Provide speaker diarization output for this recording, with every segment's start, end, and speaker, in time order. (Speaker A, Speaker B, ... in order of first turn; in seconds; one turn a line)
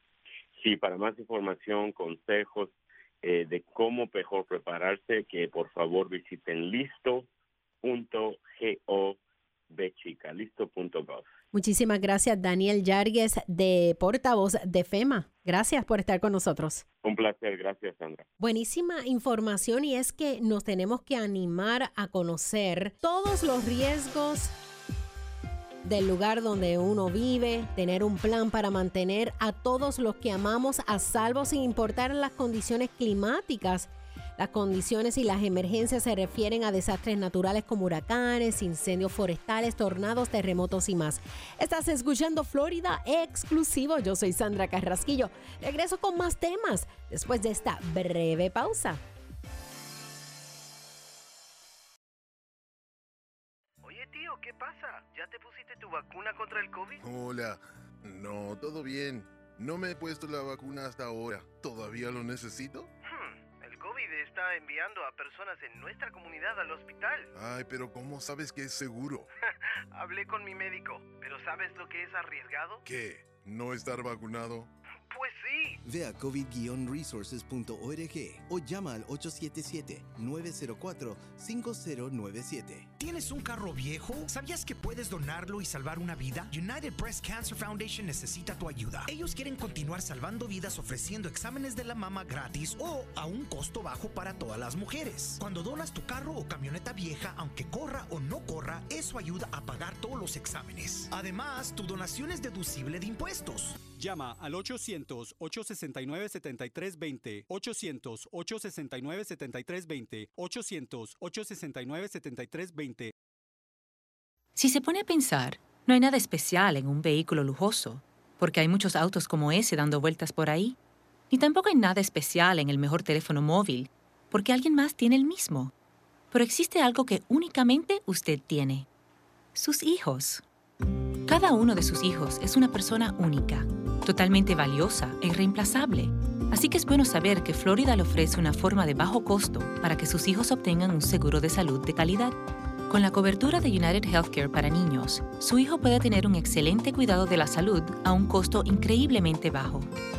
Speaker A: 0.6-7.3
Speaker A: 7.8-9.2
Speaker A: 9.7-11.3
Speaker B: 11.5-16.8
Speaker A: 17.0-18.3
Speaker B: 18.4-24.5
Speaker B: 25.8-49.0
Speaker C: 53.8-57.0
Speaker D: 57.0-62.9
Speaker C: 63.0-67.3
Speaker D: 67.3-69.3
Speaker C: 69.9-72.8
Speaker D: 72.8-74.7
Speaker C: 75.1-75.8
Speaker E: 75.8-82.9
Speaker F: 83.0-103.8
Speaker G: 103.8-113.1
Speaker H: 114.6-120.8
Speaker H: 121.3-125.7
Speaker H: 126.3-128.9
Speaker H: 129.6-130.4
Speaker H: 131.3-142.4
Speaker H: 142.9-149.9